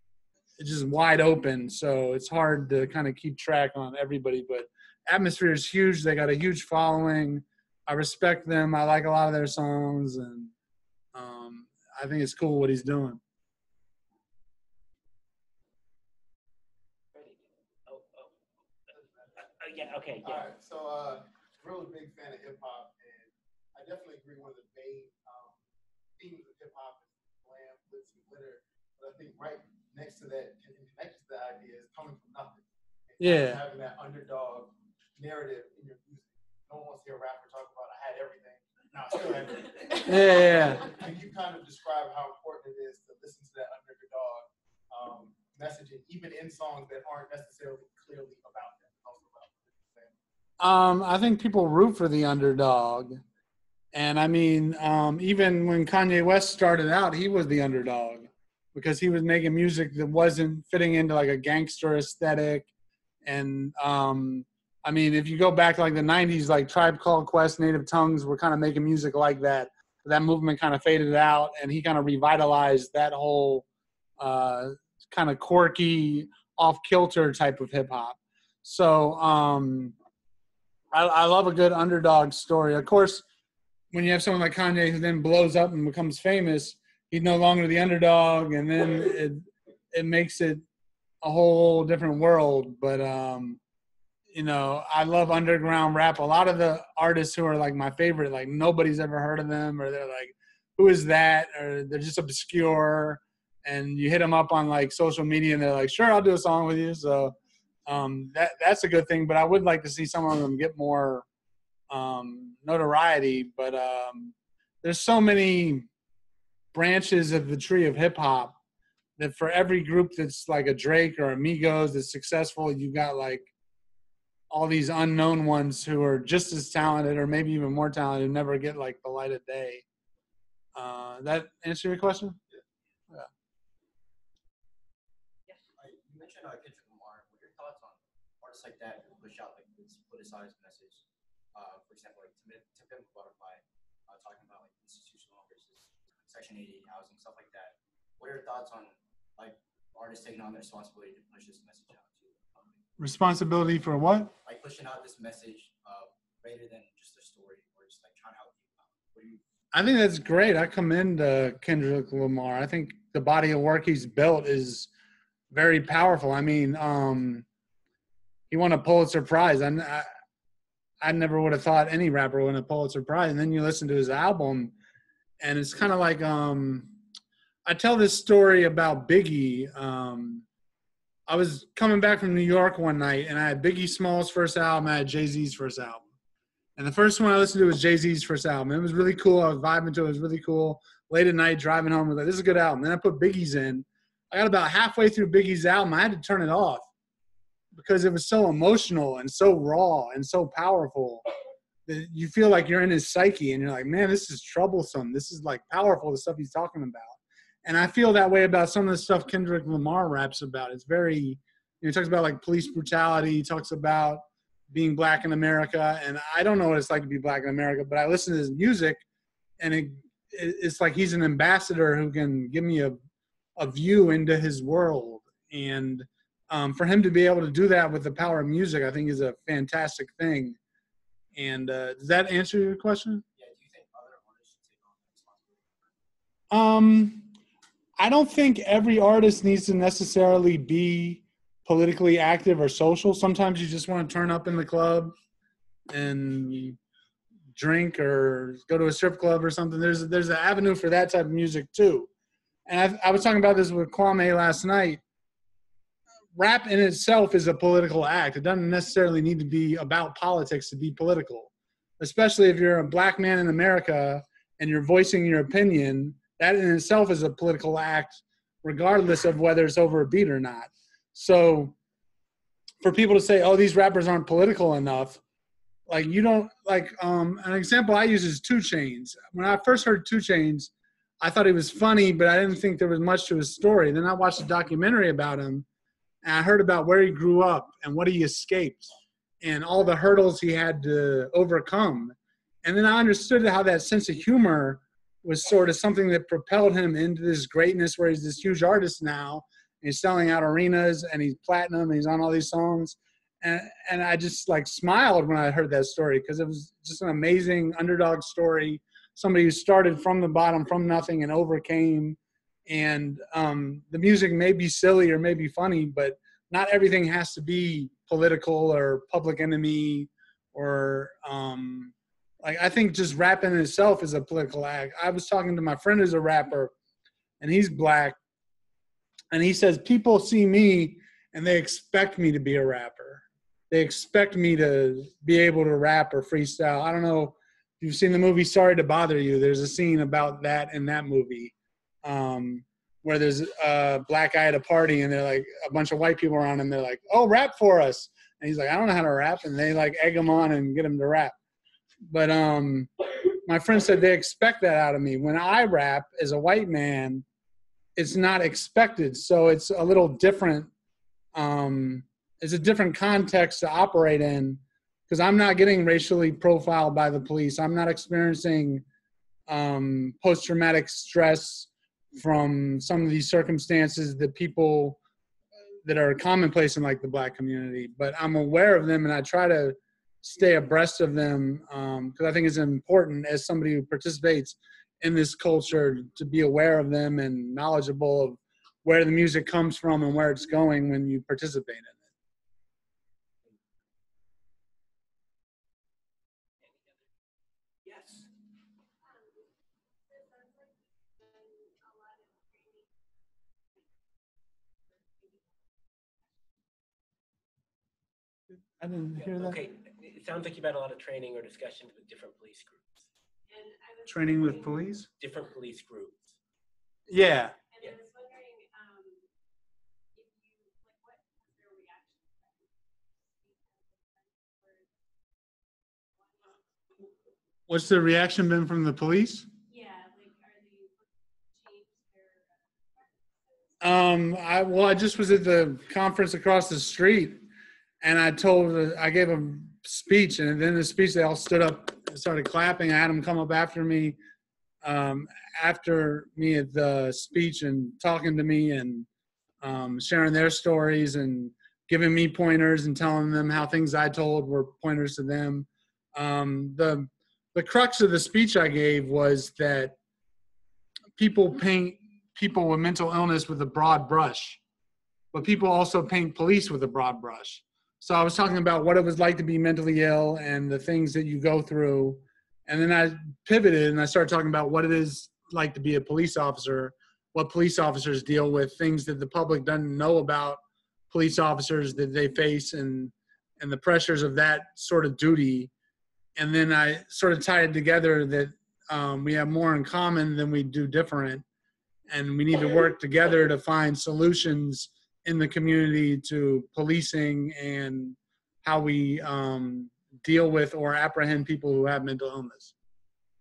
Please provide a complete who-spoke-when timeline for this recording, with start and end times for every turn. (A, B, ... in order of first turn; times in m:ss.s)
0:00.6-0:10.5 A
0:11.1-0:13.2 A
0:17.1-0:18.4 B
0:19.0-0:19.4 C
0:19.4-0:20.4 B
0:20.2-0:25.6 C
0:26.2-0:50.2 C
0:33.2-0:33.6 A
0:40.0-0:40.9 A
0:50.6-0:53.2 A
0:53.9-1:02.7 A
1:03.2-1:13.7 A
1:14.2-1:20.0 A
1:20.9-1:23.2 A
1:23.9-1:30.6 A
1:31.2-1:33.6 A
1:34.3-1:47.4 A
1:47.9-1:51.3 A
1:51.9-1:55.9 A
1:56.7-1:58.6 A
1:59.2-2:03.5 A
2:04.5-2:09.8 A
2:10.8-2:12.4 A
2:15.8-2:21.0 D
2:21.5-2:32.8 D
2:33.0-2:34.3 A
2:34.4-2:39.4 D
2:39.7-2:44.9 A
2:45.5-2:47.4 A
2:48.5-2:50.1 A
2:51.0-2:54.7 A
2:55.4-2:57.0 A
2:57.6-3:00.4 A
3:01.3-3:06.0 A
3:06.8-3:16.9 A
3:17.7-3:21.2 A
3:21.9-3:39.0 A
3:39.6-3:43.0 A
3:43.6-3:50.6 A
3:51.4-3:53.2 A
3:53.4-3:55.9 D
3:56.5-3:57.3 A
3:58.0-4:05.1 A
4:05.9-4:06.8 A
4:07.6-4:12.1 A
4:12.7-4:15.0 A
4:16.4-4:31.8 A
4:32.8-4:35.2 A
4:35.9-4:45.7 A
4:46.2-5:26.7 A
5:27.4-5:28.2 A
5:29.3-5:51.4 A
5:52.1-5:52.9 A
5:53.5-5:57.2 A
5:58.0-6:00.7 A
6:01.4-6:08.8 A
6:09.5-6:15.0 A
6:15.8-6:32.0 A
6:36.7-6:37.1 B
6:37.8-6:38.3 B
6:39.0-6:39.5 E
6:40.0-6:43.0 E
6:44.8-6:45.6 E
6:48.8-6:49.6 A
6:49.3-6:53.1 B
6:53.5-6:54.9 E
6:54.1-6:55.1 A
6:55.2-6:56.4 B
6:57.1-6:57.5 A
6:57.7-6:59.3 E
7:00.1-7:05.0 E
7:06.1-7:07.2 E
7:07.7-7:09.5 A
7:09.7-7:13.8 E
7:13.8-7:17.4 A
7:18.0-7:24.2 A
7:24.8-7:29.1 A
7:29.6-7:40.0 A
7:41.2-7:44.6 A
7:45.3-8:05.7 A
8:06.4-8:11.4 A
8:12.1-8:22.7 A